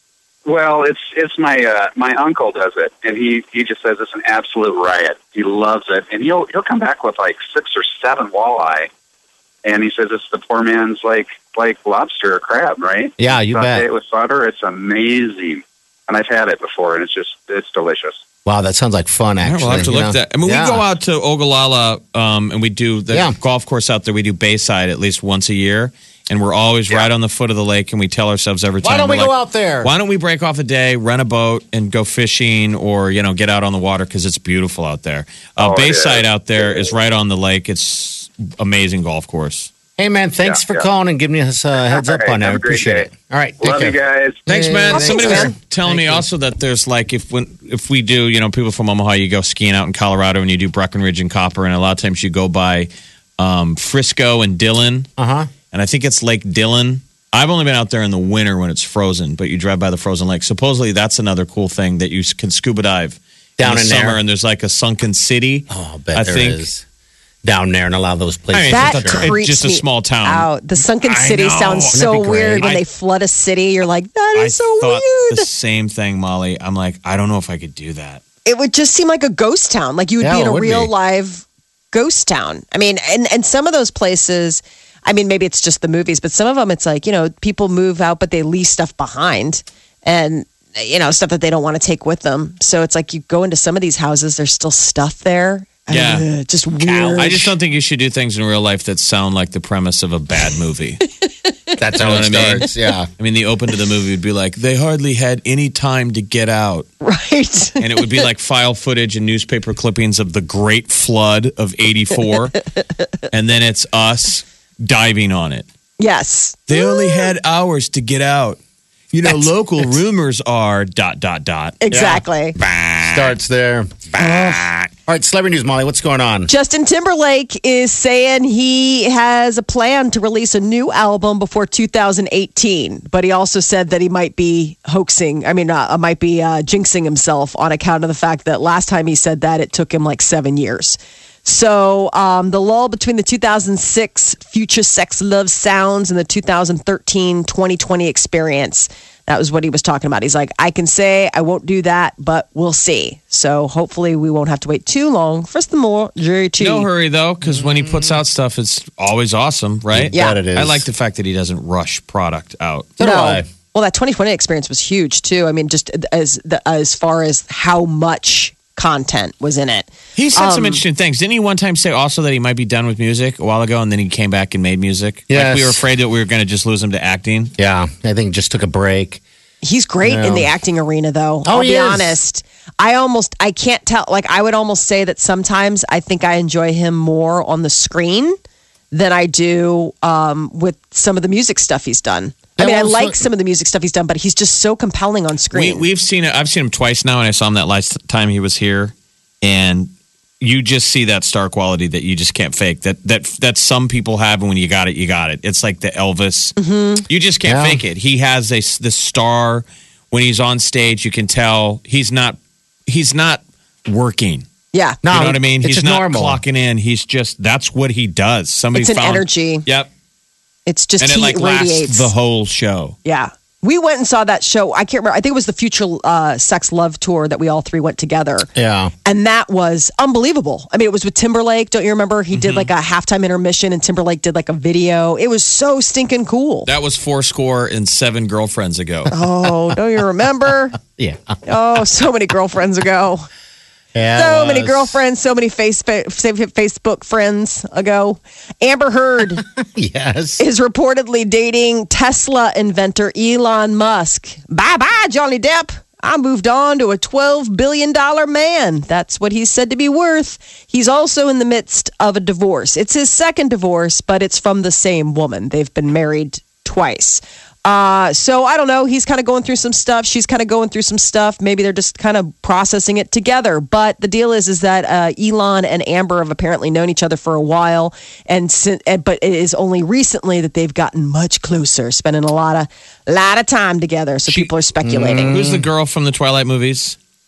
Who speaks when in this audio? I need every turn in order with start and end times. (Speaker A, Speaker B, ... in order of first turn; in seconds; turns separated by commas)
Speaker A: 0.5-8.9, Speaker A: 9.6-18.2, Speaker B: 13.2-13.8, Speaker B: 18.4-20.8, Speaker C: 19.4-39.7, Speaker B: 23.1-23.4, Speaker B: 28.8-29.9, Speaker A: 35.6-36.9, Speaker B: 40.0-46.3, Speaker A: 40.4-40.9, Speaker A: 41.7-44.5, Speaker C: 44.5-55.1, Speaker D: 44.9-45.5, Speaker B: 55.2-55.5, Speaker C: 55.7-66.6, Speaker B: 63.6-64.2, Speaker B: 65.7-66.8, Speaker B: 67.4-69.3, Speaker C: 68.5-70.5, Speaker D: 68.7-75.5, Speaker C: 71.0-72.1, Speaker B: 71.2-72.7, Speaker C: 74.3-78.2, Speaker D: 78.5-97.5, Speaker B: 80.2-80.9, Speaker C: 95.9-96.3, Speaker B: 96.8-97.5, Speaker C: 97.1-101.0, Speaker B: 101.8-103.1, Speaker C: 102.0-106.9, Speaker D: 107.0-108.1, Speaker C: 107.8-112.6, Speaker C: 113.3-115.7, Speaker D: 116.0-117.3, Speaker C: 116.7-118.6, Speaker C: 119.1-121.8, Speaker D: 121.8-122.5, Speaker B: 121.9-122.2, Speaker C: 122.6-123.3, Speaker B: 123.0-126.5, Speaker D: 124.2-124.6, Speaker D: 126.5-156.9, Speaker C: 156.6-162.9, Speaker B: 157.4-158.1, Speaker B: 159.9-160.8, Speaker D: 160.1-160.4, Speaker B: 163.0-163.4, Speaker D: 163.0-170.8, Speaker C: 170.2-177.5, Speaker B: 175.3-175.8, Speaker B: 177.6-179.2, Speaker D: 179.6-188.3, Speaker B: 180.0-180.5, Speaker B: 181.4-182.2, Speaker D: 188.9-195.8, Speaker B: 192.6-193.2, Speaker C: 195.5-206.6, Speaker D: 206.6-207.0, Speaker C: 207.1-214.5, Speaker B: 207.4-207.8, Speaker D: 214.7-215.0, Speaker B: 215.0-216.4, Speaker C: 215.1-219.9, Speaker D: 218.7-219.6, Speaker D: 220.7-222.1, Speaker C: 221.0-222.9, Speaker D: 223.0-228.5, Speaker B: 228.5-228.9, Speaker D: 229.0-236.7, Speaker C: 232.3-232.7, Speaker C: 236.7-239.1, Speaker D: 239.1-240.8, Speaker B: 240.9-241.3, Speaker D: 241.4-243.3, Speaker B: 243.9-244.9, Speaker D: 244.1-249.4, Speaker B: 249.6-250.4, Speaker D: 250.4-285.4, Speaker B: 284.8-285.7, Speaker C: 285.3-287.0